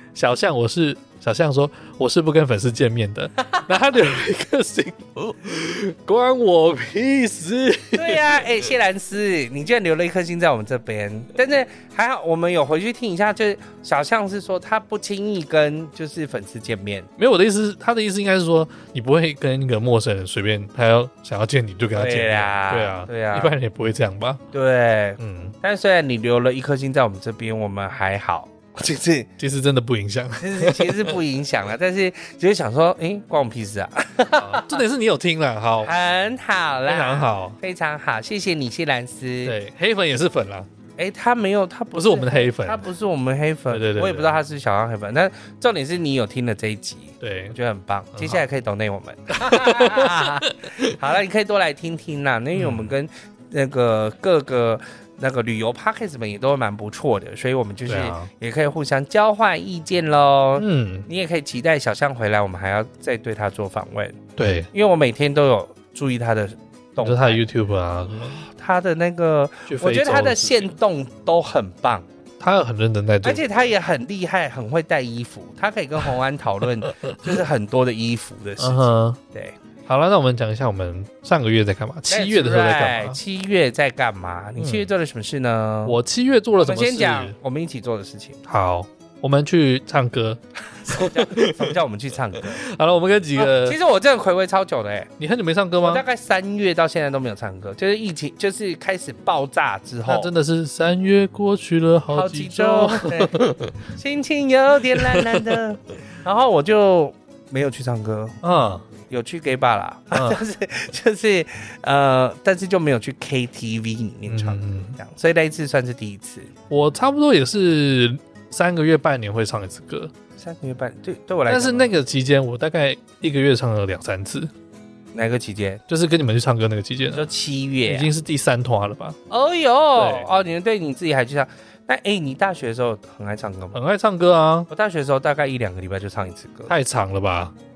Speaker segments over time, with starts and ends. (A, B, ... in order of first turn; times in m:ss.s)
0:00.2-0:08.6 A
0:07.9-0:17.1 B
0:17.2-0:24.4 A
0:21.9-0:23.6 B
0:24.5-0:29.3 B
0:25.2-0:25.6 A
0:29.4-0:31.2 A
0:30.4-0:34.8 B
0:34.4-0:35.9 A
0:35.8-0:39.6 B
0:36.9-0:37.6 A
0:39.4-0:40.7 A
0:41.0-1:04.2 B
0:42.0-0:42.8 A
0:43.7-0:44.4 A
0:47.2-0:47.6 A
0:48.2-0:48.4 A
0:49.3-0:51.0 A
0:52.5-0:52.9 A
0:57.9-0:58.3 A
1:00.6-1:01.1 A
1:04.4-1:04.7 A
1:04.7-1:07.4 B
1:07.0-1:08.4 A
1:08.3-1:12.1 B
1:09.7-1:10.7 A
1:12.4-1:13.4 A
1:13.2-1:19.6 B
1:18.6-1:19.2 A
1:19.9-1:23.2 A
1:22.1-1:26.0 B
1:24.6-1:24.9 A
1:25.9-1:27.4 A
1:26.6-1:28.4 B
1:28.5-1:31.7 A
1:30.9-1:32.6 B
1:32.4-1:33.8 A
1:33.4-1:35.1 B
1:35.2-1:36.0 A
1:35.8-1:40.3 B
1:40.0-1:43.8 A
1:42.1-1:48.4 B
1:45.0-1:45.4 A
1:48.4-1:48.8 A
1:49.1-1:56.5 B
1:50.1-1:50.4 A
1:54.3-1:55.0 A
1:56.7-2:00.1 A
2:00.4-2:01.9 B
2:01.5-2:04.5 A
2:05.1-2:05.8 B
2:05.9-2:07.3 A
2:07.1-2:08.1 B
2:07.9-2:09.2 A
2:09.3-2:13.8 B
2:10.0-2:10.3 A
2:13.7-2:14.7 A
2:14.7-2:16.7 B
2:16.7-2:17.5 A